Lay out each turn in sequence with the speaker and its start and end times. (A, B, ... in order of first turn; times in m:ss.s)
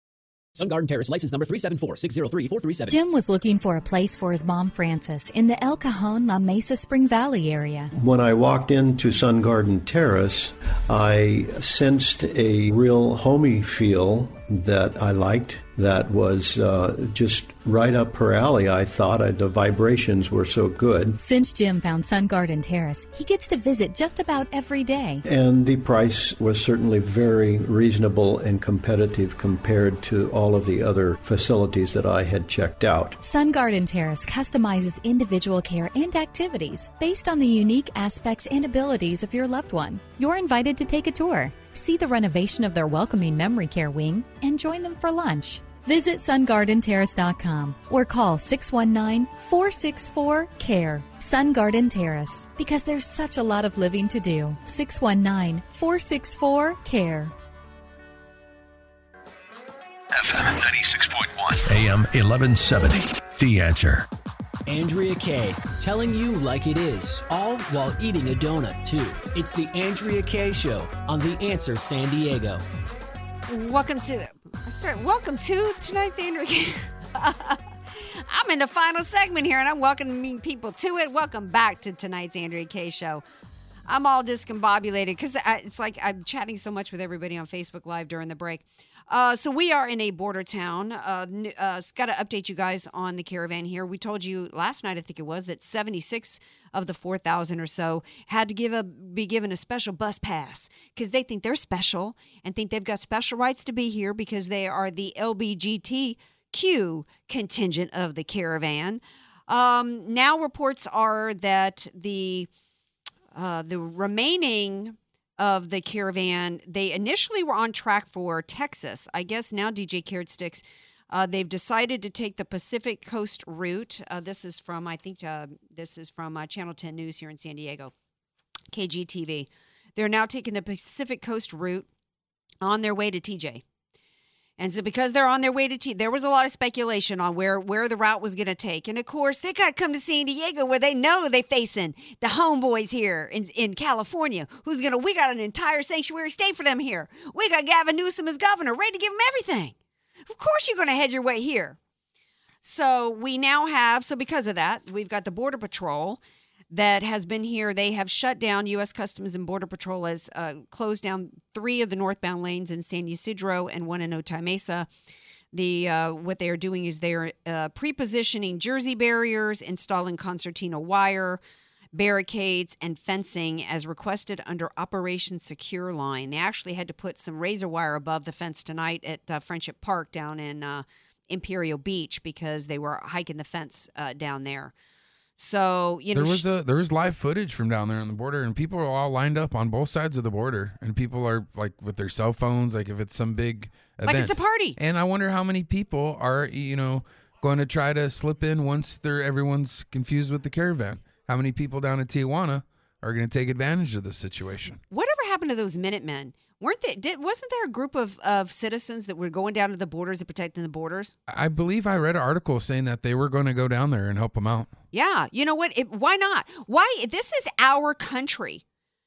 0:00.6-0:03.0 A
0:02.9-0:07.9 B
0:07.9-0:21.2 C
0:21.2-0:25.2 B
0:25.2-0:33.2 C
0:33.2-0:57.3 B
1:00.1-1:04.0 D
1:04.6-1:12.6 E
1:13.5-1:23.2 F
1:23.9-1:52.5 F
1:53.3-2:07.9 F
2:08.7-2:11.9 F
2:12.6-2:13.6 F
2:14.6-2:29.7 F
2:30.3-2:31.8 F
2:32.6-2:44.9 F
2:45.5-2:51.4 F
2:51.9-3:04.7 F
3:05.4-3:06.4 F
3:06.1-3:24.8 G
3:14.0-3:14.8 F
3:24.9-3:31.1 F
3:31.3-3:34.7 G
3:34.9-3:38.6 F